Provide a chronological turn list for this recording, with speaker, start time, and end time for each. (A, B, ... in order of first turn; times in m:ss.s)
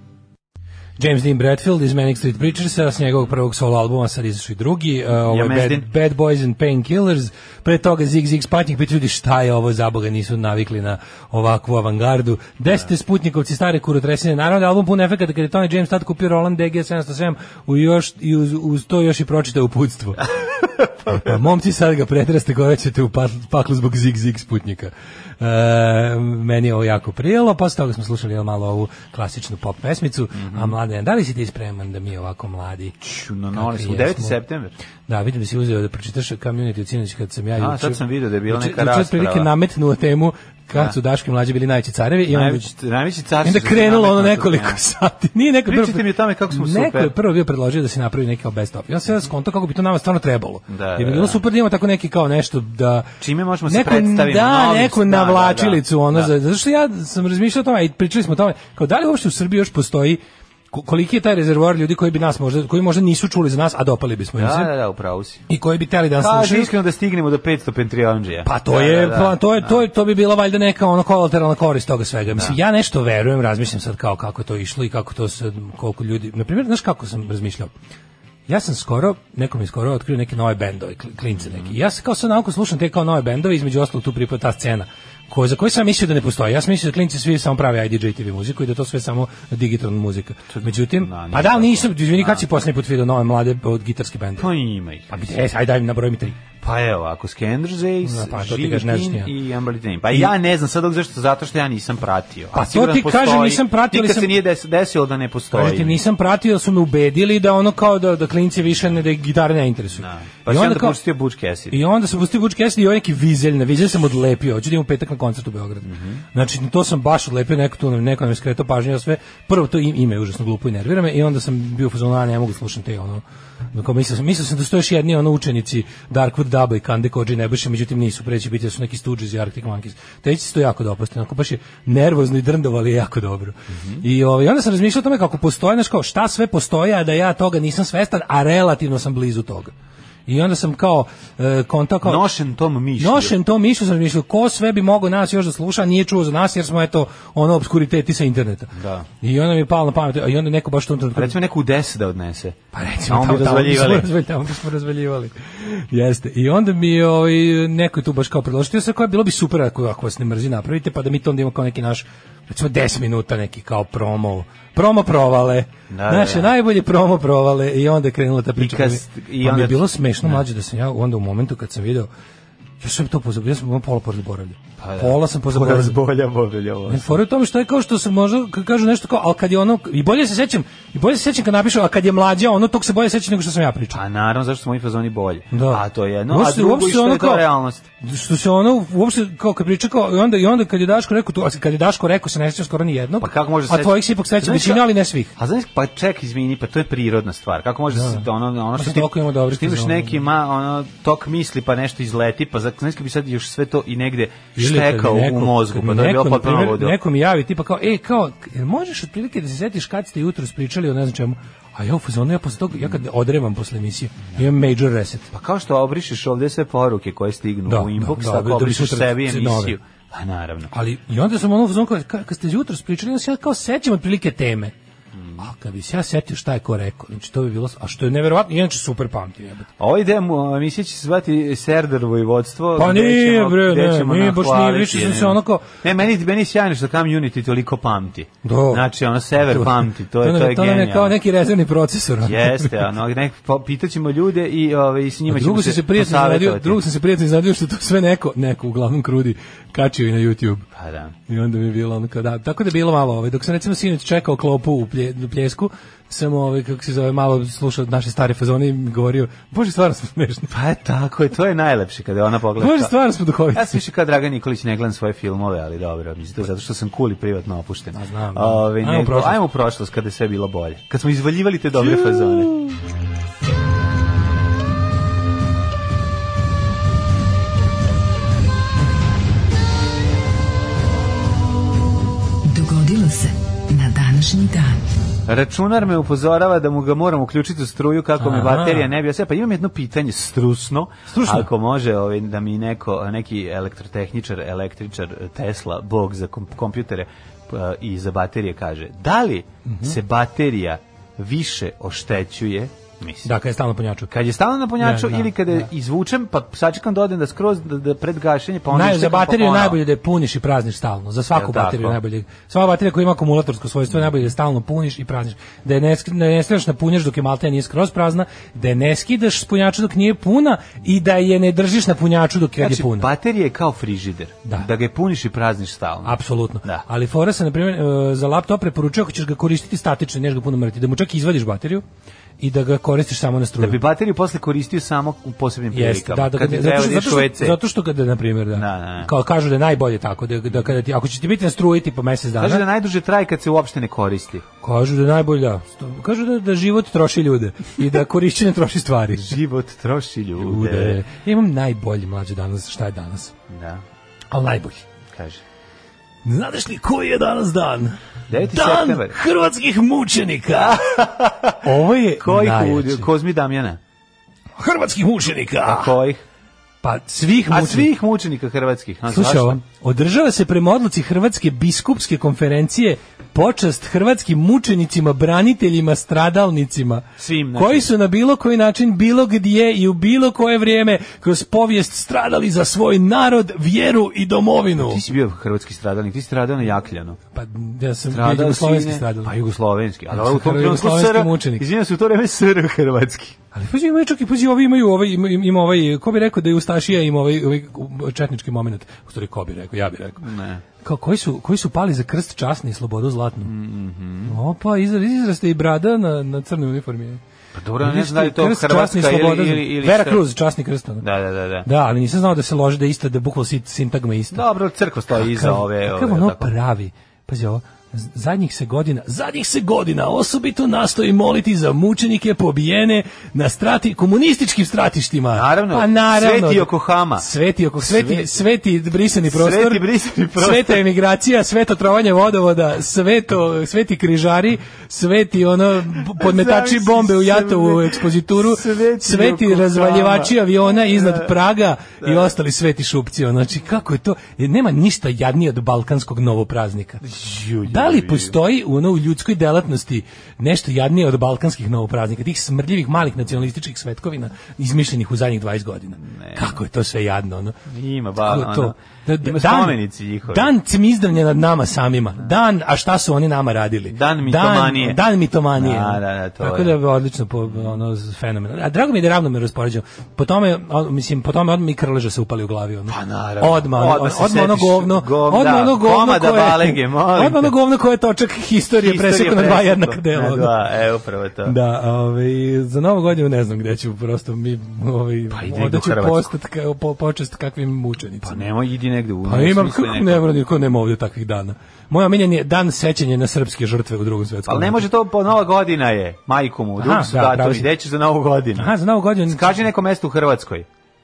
0:01.0-0:20.3 A
0:05.2-0:05.9 B
0:21.0-0:33.0 A
0:30.3-0:30.8 B
0:33.0-0:34.7 B
0:33.5-0:34.4 A
0:35.1-0:42.7 A
0:37.6-0:39.5 B
0:42.3-0:44.8 B
0:43.4-0:53.1 A
0:45.7-0:47.1 B
0:50.7-0:51.4 B
0:53.2-0:56.3 B
0:53.7-1:00.2 A
1:00.7-1:04.7 A
1:04.4-1:05.4 B
1:05.5-1:06.7 A
1:06.2-1:09.8 B
1:08.4-1:17.7 A
1:18.5-1:34.5 A
1:21.3-1:21.8 B
1:30.5-1:32.5 B
1:34.4-1:35.2 B
1:35.1-1:36.4 A
1:36.6-1:46.0 B
1:38.0-1:39.3 A
1:42.5-1:44.3 A
1:45.5-1:51.0 A
1:50.0-1:51.8 B
1:51.7-2:03.2 A
1:55.8-1:56.2 B
2:03.7-2:19.7 A
2:13.7-2:14.0 B
2:20.3-2:22.2 A
2:22.0-2:23.4 B
2:23.0-2:31.4 A
2:28.7-2:29.1 B
2:31.1-2:34.1 B
2:32.7-2:52.1 A
2:45.9-2:46.5 B
2:48.6-2:50.4 B
2:52.8-2:56.0 A
2:54.8-2:57.2 B
2:56.9-3:04.0 A
3:03.9-3:07.9 B
3:05.5-3:07.4 A
3:08.0-3:15.3 A
3:13.2-3:27.0 B
3:17.9-3:20.2 A
3:24.6-3:35.3 A
3:35.3-3:40.7 B
3:37.7-3:39.8 A
3:40.7-3:44.7 A
3:45.1-3:45.4 B
3:45.4-3:49.7 A
3:49.8-4:01.2 B
3:52.8-3:55.7 A
3:58.4-3:58.9 A
3:59.4-4:02.8 A
4:02.2-4:06.8 B
4:05.3-4:10.6 A
4:10.7-4:11.2 B
4:11.3-4:20.5 A
4:20.5-4:22.9 B
4:22.6-4:23.8 A
4:23.5-4:32.5 B
4:27.9-4:29.4 A
4:31.8-4:32.7 A
4:42.5-4:44.8 C
4:45.3-5:03.3 B
4:48.2-4:48.9 A
4:51.1-4:51.5 A
4:59.6-5:00.0 A
5:03.2-5:04.1 A
5:04.1-5:09.8 B
5:04.8-5:05.7 A
5:08.7-5:23.1 A
5:11.3-5:12.0 B
5:22.6-5:26.8 B
5:26.0-5:31.8 A
5:32.4-5:33.8 A
5:33.6-5:37.6 B
5:35.7-5:42.6 A
5:38.5-5:39.1 B
5:42.4-5:44.4 B
5:44.6-5:49.4 A
5:49.1-5:51.0 B
5:50.4-5:53.3 A
5:53.5-5:53.8 B
5:54.3-5:54.8 A
5:55.1-5:55.4 B
5:56.2-5:58.0 A
5:58.3-5:59.2 B
5:58.5-6:00.8 A
6:00.5-6:03.8 B
6:01.6-6:03.1 A
6:04.6-6:06.0 A
6:05.6-6:06.2 B
6:06.8-6:07.9 A
6:07.5-6:09.6 B
6:09.1-6:25.0 A
6:17.2-6:17.9 B
6:24.8-6:27.2 B
6:27.3-6:29.3 A
6:28.1-6:33.4 B
6:30.1-6:31.6 A
6:33.5-6:40.2 A
6:40.2-6:40.6 B
6:40.8-6:43.5 A
6:43.4-6:44.4 B
6:44.2-6:47.2 A
6:47.5-6:50.2 B
6:47.8-6:51.0 A
6:51.0-6:51.7 B
6:51.6-6:54.4 A
6:54.3-6:56.5 B
6:55.1-7:09.8 A
7:05.3-7:07.3 B
7:07.8-7:08.4 B
7:09.3-7:10.8 B
7:10.4-7:27.0 A
7:16.0-7:21.4 B
7:22.0-7:22.3 B
7:27.0-7:28.4 B
7:27.7-7:37.6 A
7:36.0-7:36.6 B
7:37.7-7:40.5 B
7:38.2-8:00.5 A
7:43.9-7:45.0 B
7:45.5-7:46.8 B
7:47.5-7:47.7 B
7:52.9-7:57.5 B
7:58.8-8:01.6 B
8:01.4-8:08.5 A
8:05.3-8:06.3 B
8:08.2-8:10.3 B
8:09.2-8:14.9 A
8:14.5-8:18.7 B
8:16.8-8:17.7 A
8:18.6-8:19.6 A
8:19.2-8:20.7 B